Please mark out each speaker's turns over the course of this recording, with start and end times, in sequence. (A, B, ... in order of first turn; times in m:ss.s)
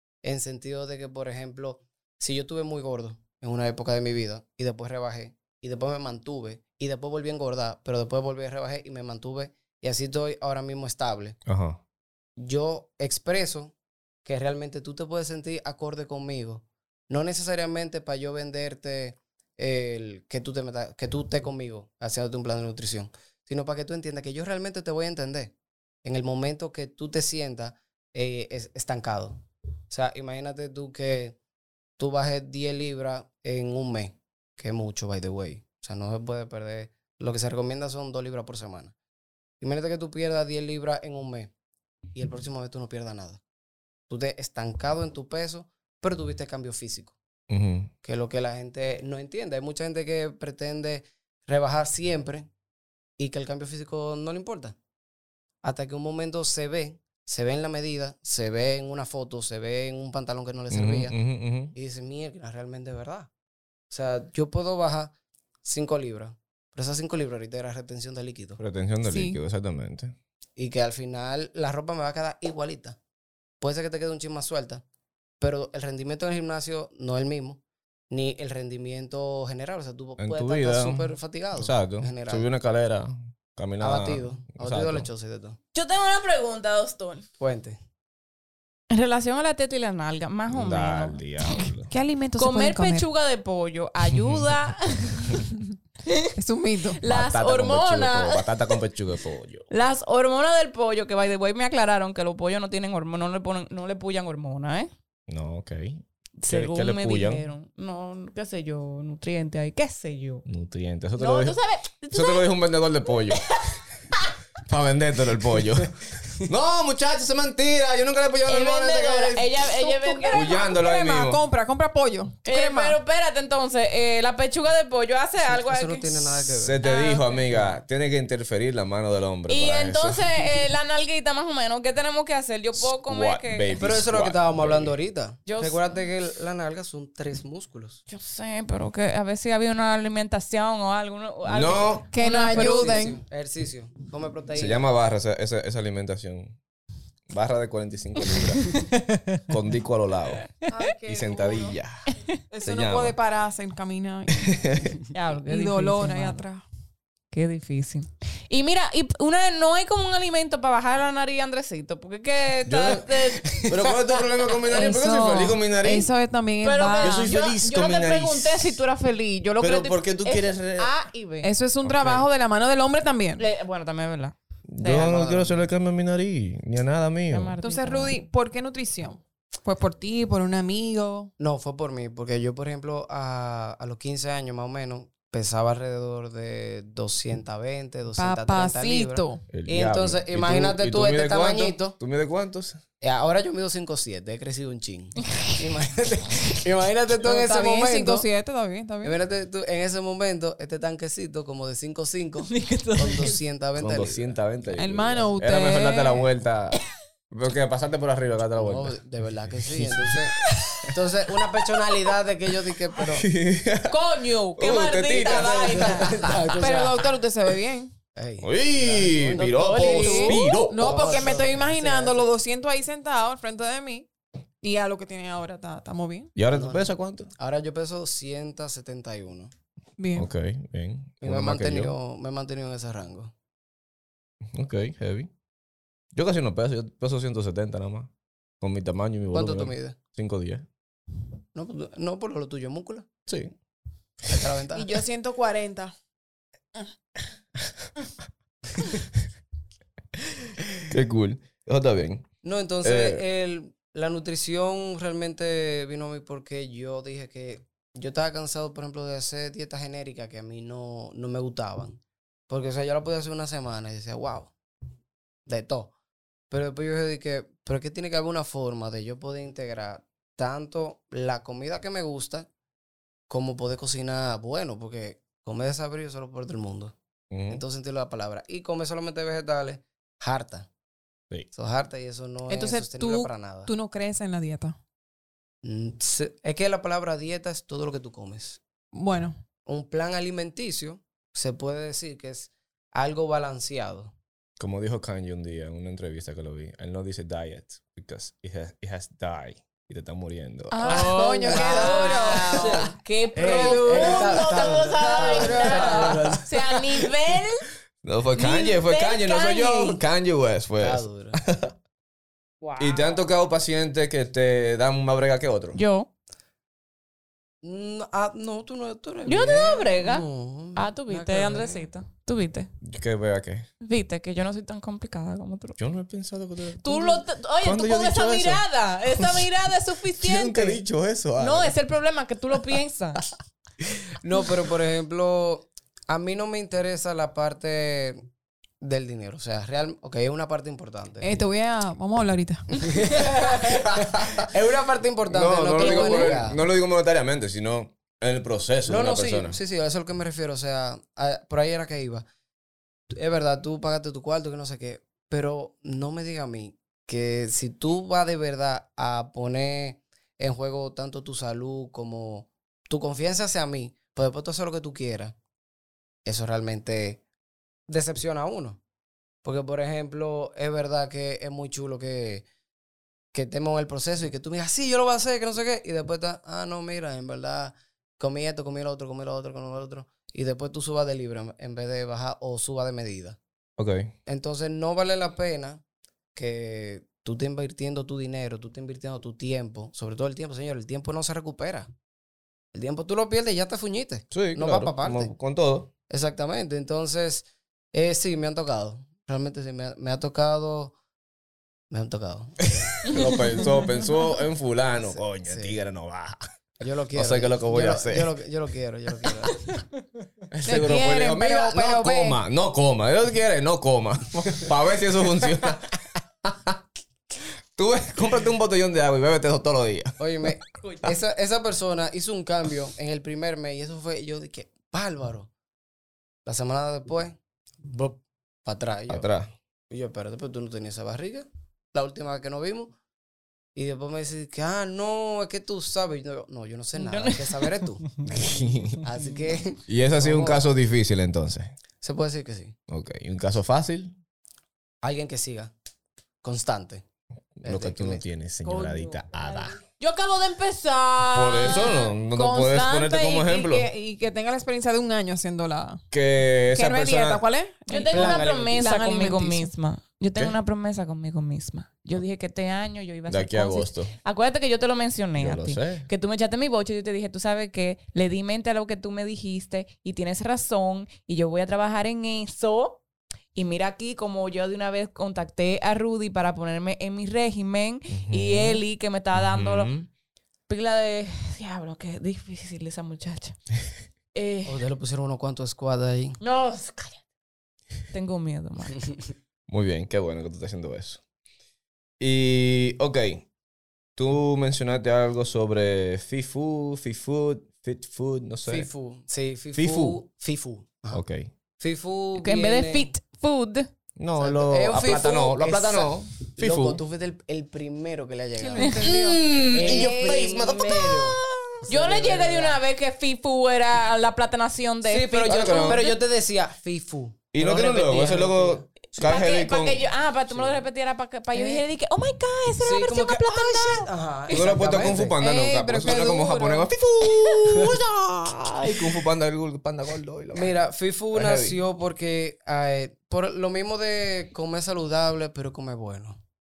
0:00.2-0:11.4 A
0:11.4-0:11.8 B
0:12.4-0:13.7 A
0:14.2-0:31.4 A
0:32.0-0:38.9 A
0:39.6-0:41.5 A
0:42.1-0:43.4 A
0:44.1-0:47.1 A
0:47.5-0:47.9 B
0:48.0-0:52.5 A
0:53.2-0:54.8 A
0:55.6-1:01.1 A
1:00.7-1:01.7 B
1:01.7-1:03.3 A
1:03.9-1:05.1 A
1:05.6-1:08.6 A
1:08.6-1:10.1 B
1:09.0-1:09.4 C
1:10.6-1:13.0 A
1:13.6-1:14.8 A
1:15.4-1:22.4 A
1:20.2-1:25.1 B
1:23.8-1:25.6 A
1:25.7-1:27.2 D
1:27.4-1:27.8 A
1:28.9-1:31.7 D
1:30.5-1:31.9 B
1:31.9-1:33.0 C
1:32.4-1:35.4 D
1:34.2-1:34.4 B
1:36.0-1:36.3 D
1:36.4-1:37.0 C
1:36.8-1:38.8 D
1:37.0-1:39.7 B
1:39.7-1:44.9 D
1:45.3-1:47.4 B
1:46.4-1:50.4 D
1:50.4-1:51.6 B
1:51.2-1:52.5 D
1:52.1-1:53.4 B
1:53.3-1:54.3 D
1:54.6-1:59.5 B
1:58.4-2:00.7 D
1:59.7-2:03.0 C
2:00.3-2:01.4 B
2:02.4-2:07.6 D
2:05.4-2:06.8 A
2:06.6-2:10.2 B
2:09.5-2:13.8 D
2:12.7-2:14.9 B
2:13.8-2:18.0 A
2:15.5-2:15.8 D
2:18.1-2:23.1 D
2:21.4-2:22.0 B
2:22.1-2:23.2 C
2:22.5-2:24.8 A
2:24.5-2:26.6 B
2:27.3-2:28.7 B
2:28.4-2:29.0 D
2:29.5-2:30.5 B
2:30.7-2:31.8 C
2:31.0-2:32.1 B
2:32.5-2:34.6 C
2:32.6-2:33.2 B
2:34.4-2:35.0 B
2:35.1-2:36.4 D
2:35.5-2:36.6 C
2:37.3-2:44.2 D
2:42.7-2:46.1 B
2:44.7-2:47.3 C
2:46.6-2:51.5 D
2:47.0-2:48.8 B
2:49.6-2:50.9 B
2:51.4-2:53.4 C
2:51.8-2:52.3 B
2:53.4-2:55.2 D
2:54.7-2:57.5 B
2:54.9-2:55.6 A
2:57.3-2:58.2 D
2:57.6-3:01.3 C
3:01.4-3:12.0 A
3:08.2-3:09.4 C
3:09.5-3:12.8 B
3:13.0-3:18.3 A
3:17.2-3:19.2 C
3:19.0-3:24.4 A
3:22.4-3:23.4 D
3:23.8-3:26.8 B
3:24.8-3:26.3 C
3:27.3-3:29.0 B
3:28.6-3:33.2 A
3:29.5-3:30.2 B
3:30.4-3:30.9 D
3:33.0-3:34.0 B
3:33.9-3:36.4 D
3:34.5-3:36.3 B
3:35.1-3:37.0 A
3:36.6-3:37.9 C
3:38.1-3:42.3 A
3:38.4-3:41.3 B
3:39.4-3:40.6 D
3:39.8-3:44.1 C
3:44.6-3:46.3 C
3:46.4-3:47.3 B
3:46.5-3:49.5 A
3:50.0-3:50.3 C
3:50.1-3:51.9 B
3:51.2-3:53.3 A
3:54.5-3:55.3 B
3:56.1-4:00.6 B
3:59.3-4:00.0 A
4:01.5-4:03.1 A
4:03.2-4:03.5 B
4:04.3-4:04.9 A
4:04.7-4:05.9 C
4:10.8-4:12.3 B
4:12.4-4:24.5 A
4:12.8-4:13.2 B
4:25.4-4:25.9 A
4:26.5-4:32.5 A
4:33.3-4:36.9 A
4:37.3-4:37.6 B
4:37.5-4:40.7 A
4:41.5-4:43.7 A
4:42.5-4:44.8 C
4:45.6-4:48.6 A
4:48.9-4:49.4 C
4:49.6-4:54.1 A
4:54.6-5:01.2 B
5:00.7-5:06.2 C
5:00.8-5:07.6 D
5:01.4-5:06.5 A
5:08.0-5:11.7 B
5:08.4-5:10.0 D
5:10.8-5:11.4 A
5:12.6-5:13.2 D
5:12.8-5:15.8 B
5:15.7-5:16.1 D
5:17.6-5:21.9 A
5:19.2-5:22.7 D
5:22.8-5:23.7 B
5:23.8-5:25.8 D
5:25.8-5:29.4 B
5:26.8-5:30.8 D
5:30.2-5:31.7 B
5:31.4-5:33.2 D
5:34.2-5:38.2 A
5:38.8-5:41.4 A
5:41.2-5:42.7 C
5:42.8-5:46.6 A
5:43.9-5:44.4 B
5:45.3-5:49.6 B
5:45.8-5:46.4 D
5:48.8-5:52.2 A
5:53.1-6:05.4 A
6:06.2-6:07.2 A
6:07.9-6:08.8 A
6:09.4-6:12.4 A
6:13.3-6:23.4 A
6:23.8-6:24.1 B
6:24.2-6:25.8 A
6:26.3-6:31.9 A
6:32.7-6:35.3 A
6:34.3-6:35.9 B
6:36.1-6:40.9 A
6:41.9-6:42.6 A
6:42.8-6:46.4 B
6:45.0-6:45.7 A
6:46.8-6:49.6 A
6:47.1-6:48.3 B
6:50.5-6:56.8 B
6:50.6-6:52.4 C
6:57.7-7:00.2 B
7:00.2-7:05.5 A
7:06.4-7:09.3 A
7:09.1-7:09.5 B
7:09.9-7:12.9 A
7:13.7-7:18.0 A
7:17.0-7:18.1 D
7:18.2-7:19.0 B
7:18.9-7:20.7 A
7:19.9-7:21.7 B
7:22.0-7:22.7 A
7:22.9-7:24.1 B
7:25.0-7:25.7 A
7:26.4-7:27.0 A
7:27.6-7:29.8 B
7:27.6-7:28.2 A
7:28.6-7:32.1 D
7:31.3-7:33.9 B
7:31.6-7:36.0 C
7:36.1-7:37.4 B
7:36.7-7:39.7 C
7:37.9-7:53.0 D
7:38.1-7:38.9 A
7:43.3-7:44.1 B
7:45.4-7:46.0 B
7:53.5-7:59.9 D
7:58.1-7:58.8 B
7:59.3-8:00.1 B
8:00.7-8:03.6 D
8:04.3-8:04.8 D
8:04.6-8:06.4 A
8:06.4-8:07.2 D
8:08.1-8:09.1 D
8:09.7-8:11.2 B
8:12.2-8:13.4 B
8:14.2-8:18.9 B
8:18.6-8:21.2 A
8:19.7-8:20.2 B
8:21.1-8:21.5 B
8:21.8-8:23.1 A
8:22.4-8:23.9 D
8:24.2-8:27.0 B
8:24.4-8:32.8 A
8:28.6-8:30.5 C
8:28.8-8:29.0 D
8:29.0-8:31.3 B
8:29.8-8:30.6 D
8:31.8-8:36.2 D
8:35.0-8:39.4 A
8:35.4-8:36.0 B
8:37.5-8:40.0 B
8:39.2-8:44.7 D
8:40.5-8:40.8 A
8:41.5-8:41.8 A
8:42.8-8:45.3 A
8:44.5-8:50.7 B
8:45.4-8:46.9 C
8:50.5-8:56.4 A
8:51.3-8:51.8 B